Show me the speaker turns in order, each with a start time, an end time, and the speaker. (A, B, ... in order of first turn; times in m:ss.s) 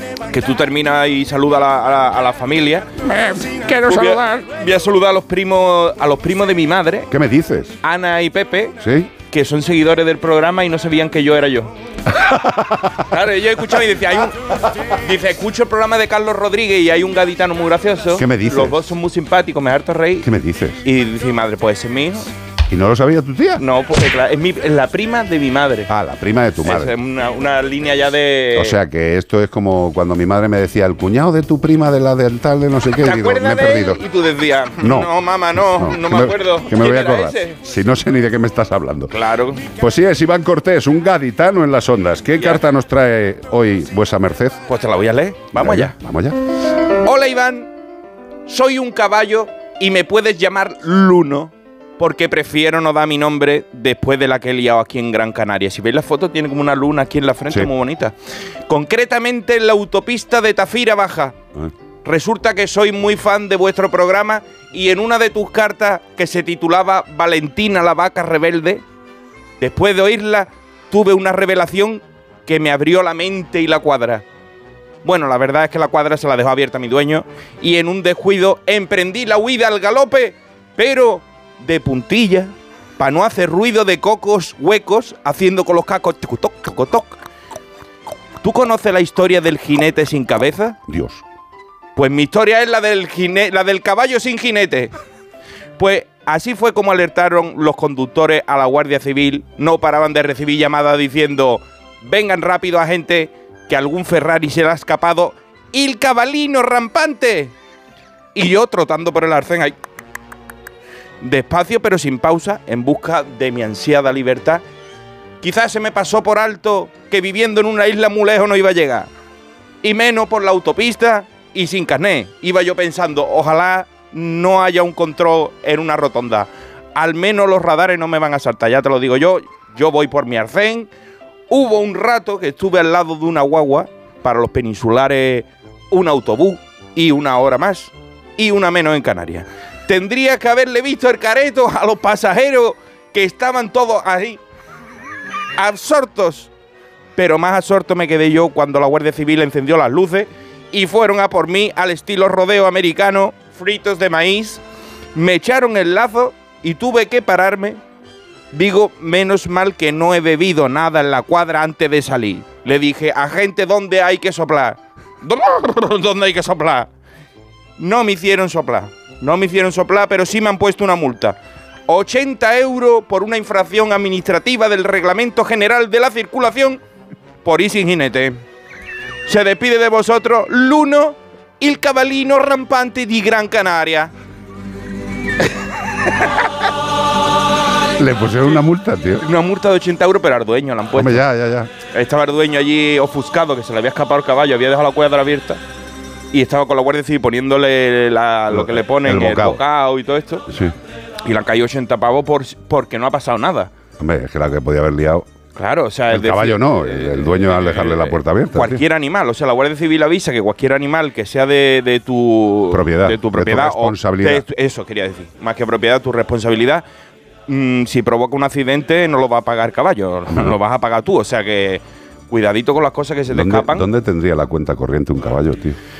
0:00.3-0:07.1 A
0:07.1-0:07.8 B
0:07.8-0:08.8 A
0:08.8-0:09.1 B
0:09.3-0:11.7 A
0:12.2-0:12.8 B
0:13.0-0:20.3 A
0:18.2-0:18.8 B
0:20.2-0:20.8 B
0:20.8-0:22.3 A
0:22.7-0:23.6 B
0:23.6-0:25.9 A
0:25.9-0:26.9 B
0:26.6-0:28.8 A
0:28.5-0:34.0 B
0:33.0-0:37.6 A
0:34.8-0:39.1 B
0:39.1-0:39.7 A
0:39.7-0:44.6 B
0:42.4-0:42.6 A
0:44.7-0:46.0 A
0:45.5-0:46.4 B
0:46.9-0:47.7 A
0:48.5-0:58.1 A
0:58.7-1:01.4 A
1:02.0-1:08.8 A
1:09.6-1:14.3 A
1:15.0-1:27.2 A
1:28.4-1:30.8 A
1:30.9-1:31.2 B
1:32.0-1:34.9 A
1:35.8-1:47.5 A
1:48.3-1:49.8 A
1:51.2-1:54.6 A
1:55.4-1:59.1 A
1:59.8-2:10.9 A
2:11.5-2:24.4 A
2:25.6-2:26.5 A
2:27.2-2:34.6 A
2:35.2-2:37.8 A
2:38.5-2:46.9 A
2:47.8-2:56.8 A
2:57.4-2:58.4 A
2:59.3-3:04.1 A
3:06.0-3:06.5 A
3:08.0-3:09.3 B
3:09.2-3:11.2 A
3:10.9-3:11.7 B
3:11.9-3:15.6 A
3:16.3-3:20.5 A
3:18.5-3:19.6 B
3:21.2-3:23.7 A
3:24.0-3:25.2 B
3:25.6-3:36.8 A
3:26.1-3:28.8 B
3:32.7-3:34.4 B
3:37.5-3:43.9 A
3:43.3-3:45.8 B